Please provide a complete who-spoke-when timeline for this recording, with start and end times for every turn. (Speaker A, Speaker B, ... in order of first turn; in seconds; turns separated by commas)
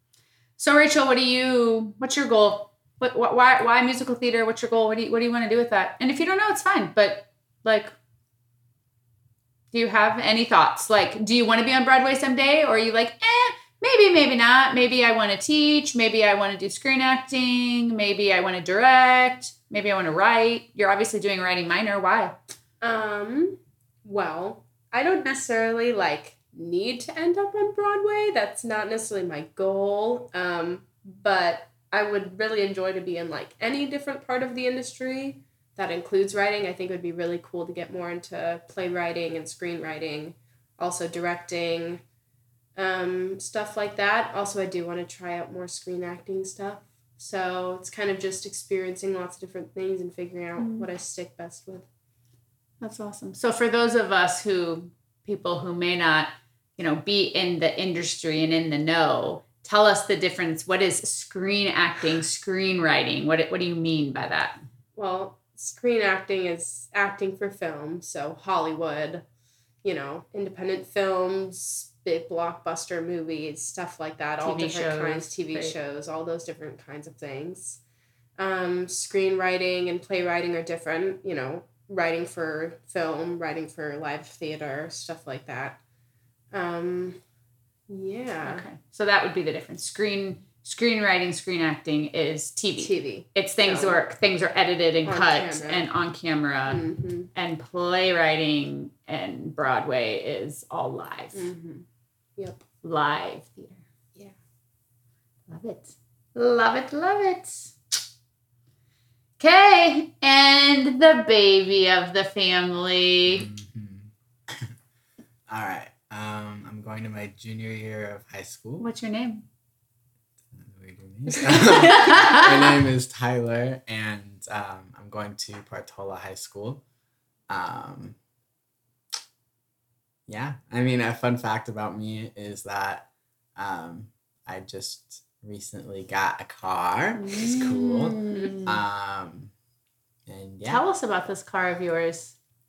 Speaker A: 0.6-7.9, Speaker A: 9.7-22.4, Speaker B: 22.8-42.0, Speaker B: 42.8-51.9, Speaker A: 50.6-50.9, Speaker A: 52.8-64.6, Speaker B: 65.0-69.2, Speaker B: 69.8-77.8, Speaker A: 74.4-75.8, Speaker B: 78.4-85.8, Speaker B: 86.5-87.2, Speaker B: 87.9-88.6, Speaker A: 88.4-101.5, Speaker B: 92.8-94.0, Speaker B: 95.1-95.9, Speaker B: 96.7-97.3, Speaker B: 101.3-101.8, Speaker A: 102.8-103.8, Speaker A: 105.5-107.7, Speaker A: 109.4-113.5, Speaker C: 113.3-114.7, Speaker C: 115.5-118.9, Speaker A: 118.8-119.5, Speaker C: 120.5-126.8, Speaker A: 121.9-122.3, Speaker C: 127.5-128.2, Speaker C: 130.3-139.5, Speaker A: 137.2-138.8, Speaker C: 140.3-140.8, Speaker A: 140.7-142.3